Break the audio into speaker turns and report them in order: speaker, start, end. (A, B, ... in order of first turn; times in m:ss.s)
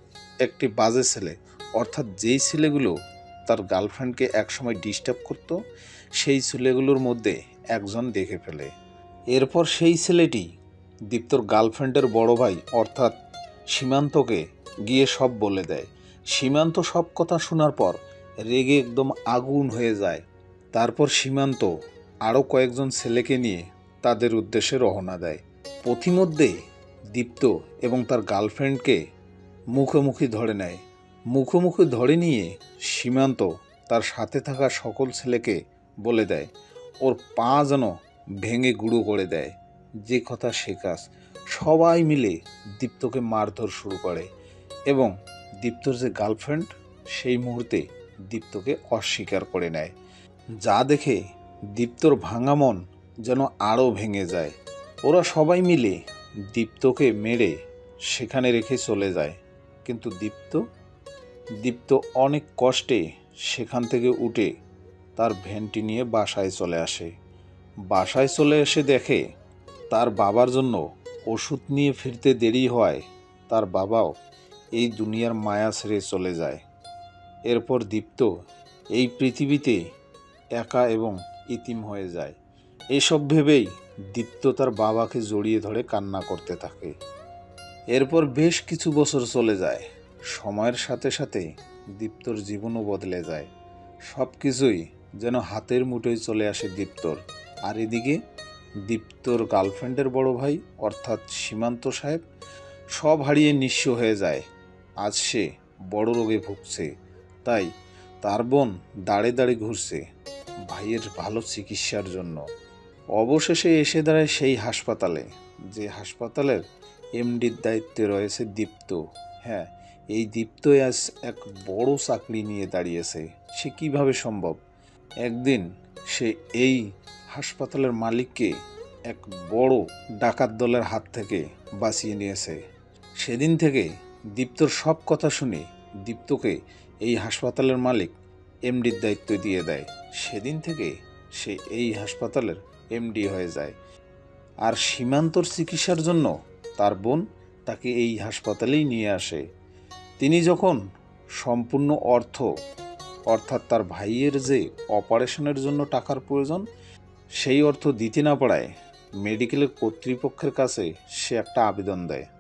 0:00.4-0:02.9 A
0:03.5-0:05.5 A
0:06.2-0:08.7 A
0:09.3-0:10.5 A
0:11.1-0:13.1 A
0:13.7-0:20.2 A
0:20.7-0:21.7 A
0:22.2-0:26.5 A
0:27.1-0:29.0 A
0:29.7-0:30.8 A
0:31.3-0:36.5 A
0:37.0-0:39.5 A
0:40.0-0:44.3 A
0:44.9-0:49.9 A
0:50.6-0:51.2 A
0:51.8-0:54.5 A
0:55.0-0:56.0 A
0:56.5-0:57.5 A
0:58.1-1:00.6 A
1:01.6-1:04.5 A
1:05.2-1:07.1 A
1:07.9-1:09.2 A
1:09.9-1:14.1 A
1:14.8-1:16.6 A
1:17.5-1:18.3 A
1:19.0-1:19.8 A
1:20.6-1:22.3 A
1:22.9-1:26.9 A
1:27.9-1:29.8 A
1:30.3-1:31.4 A
1:32.0-1:33.5 A
1:34.1-1:38.2 A
1:38.9-1:42.2 A
1:43.0-1:44.4 A
1:45.0-1:46.9 A
1:48.2-1:50.0 A
1:50.7-1:52.4 A
1:53.2-1:56.6 A
1:57.2-2:04.6 A
2:05.2-2:08.5 A
2:09.1-2:12.6 A
2:13.2-2:18.1 A
2:18.7-2:23.7 A
2:24.6-2:29.4 A
2:30.2-2:30.8 A
2:31.4-2:32.5 A
2:33.3-2:36.6 A
2:37.4-2:38.7 A
2:39.2-2:42.2 A